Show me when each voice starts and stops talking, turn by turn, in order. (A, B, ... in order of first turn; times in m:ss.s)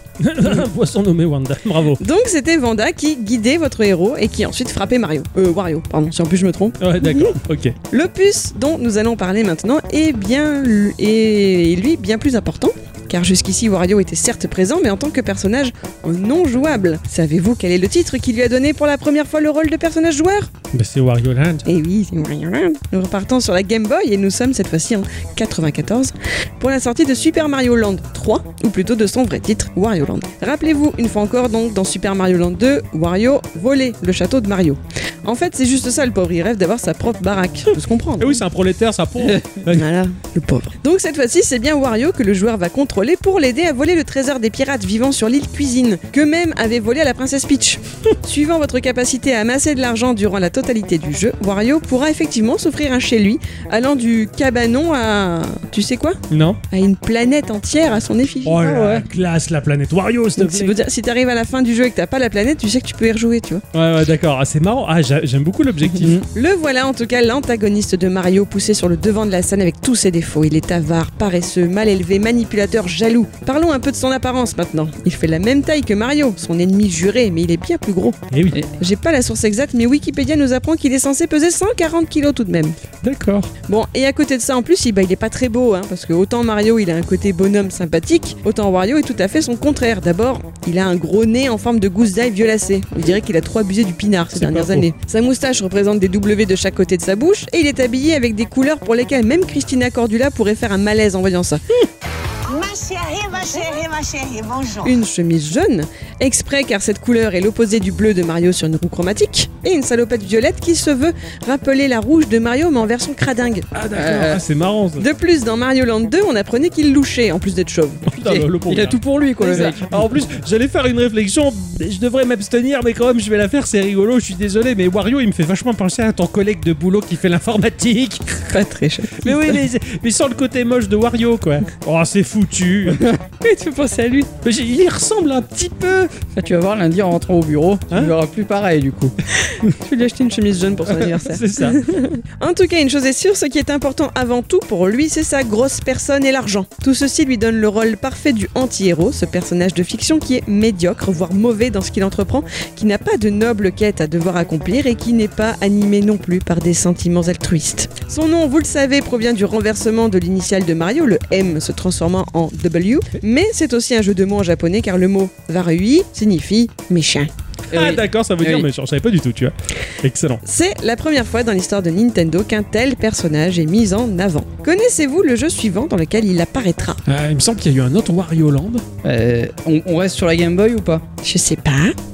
0:00.2-0:02.0 A
0:02.0-0:07.4 B
0:06.8-0:07.8 A
0:07.9-0:20.5 B
0:20.7-0:21.6 A
0:21.6-0:38.4 B
0:38.2-0:39.9 A
0:39.2-0:39.5 C
0:39.7-0:58.6 B
0:56.3-0:56.6 A
0:58.4-1:00.8 A
0:58.6-0:59.1 C
1:00.4-1:03.6 B
1:03.7-1:06.2 A
1:06.0-1:06.3 C
1:06.3-1:18.2 B
1:18.3-1:18.6 A
1:18.8-1:22.8 B
1:23.0-1:23.5 A
1:23.7-1:41.6 B
1:34.3-1:34.9 A
1:42.5-1:44.7 D
1:43.5-1:43.9 B
1:44.7-1:53.7 B
1:53.7-1:55.0 A
1:54.0-1:54.4 C
1:55.0-1:58.0 B
1:58.1-2:08.6 A
1:58.2-2:00.1 C
2:08.5-2:09.6 B
2:09.2-2:13.1 A
2:13.4-2:14.3 B
2:14.4-2:16.1 A
2:16.4-2:19.1 C
2:19.4-2:47.3 B
2:21.1-2:21.8 A
2:47.7-2:50.4 A
2:47.7-2:48.7 C
2:50.4-2:57.0 B
2:57.1-2:58.8 A
2:59.0-3:01.0 C
3:01.2-3:02.0 B